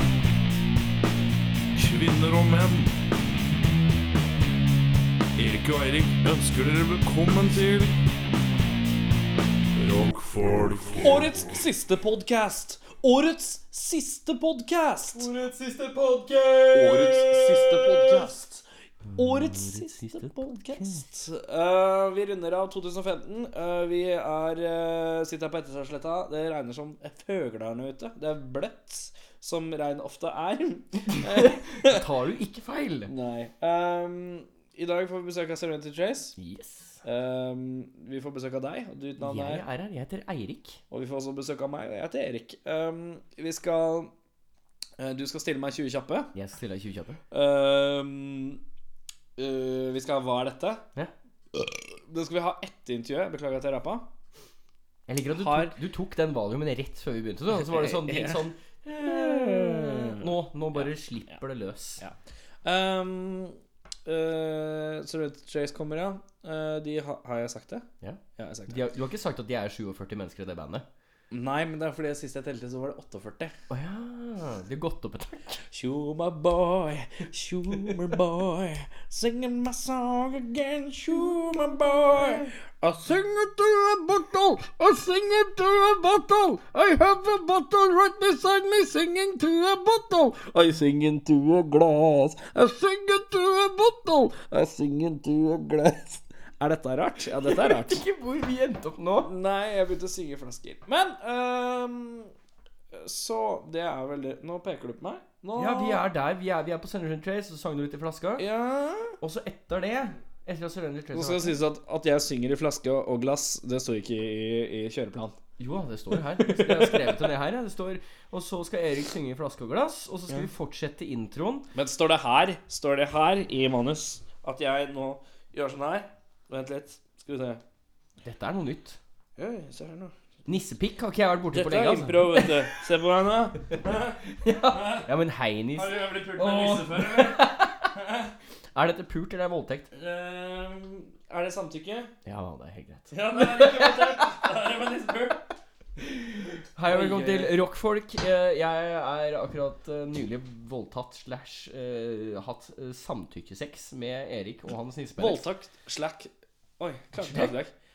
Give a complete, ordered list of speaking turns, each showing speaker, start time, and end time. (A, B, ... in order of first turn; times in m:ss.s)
0:01.8-0:02.9 A
0:05.4-0:08.0 A
0:09.8-0:11.0 A
0:11.0-0:15.3 B
0:15.1-0:18.4 C
0:16.7-0:18.6 B
0:19.1-0:21.0 C
0:19.1-0:32.0 B
0:31.3-0:33.1 C
0:33.1-0:36.3 B
0:36.4-0:37.0 C
0:37.0-0:39.6 B
0:39.2-0:40.8 C
0:40.9-0:44.1 B
0:45.0-0:46.3 B
0:46.3-0:47.2 C
0:47.3-0:48.6 B
0:49.4-0:50.8 B
0:51.6-0:54.1 B
0:55.1-1:02.0 C
0:55.3-0:55.7 B
0:57.5-1:00.9 B
1:02.0-1:08.8 B
1:08.0-1:10.8 C
1:11.3-1:13.5 B
1:13.7-1:15.6 C
1:15.7-1:38.0 B
1:37.4-1:39.3 C
1:39.2-1:42.3 B
1:42.9-1:46.0 B
1:45.6-1:48.4 C
1:48.4-1:49.2 B
1:49.2-1:51.5 C
1:51.1-1:55.4 B
1:55.6-2:01.7 C
1:56.4-1:57.2 B
2:01.7-2:07.6 B
2:08.2-2:09.0 C
2:09.4-2:10.1 B
2:10.4-2:12.8 C
2:11.5-2:14.2 B
2:14.2-2:17.9 C
2:14.7-2:15.1 B
2:15.8-2:18.3 B
2:18.7-2:19.9 C
2:19.9-2:22.1 B
2:22.2-2:24.4 C
2:23.1-2:25.5 B
2:26.0-2:35.4 C
2:26.9-2:27.5 B
2:35.2-2:37.7 B
2:37.2-2:37.6 C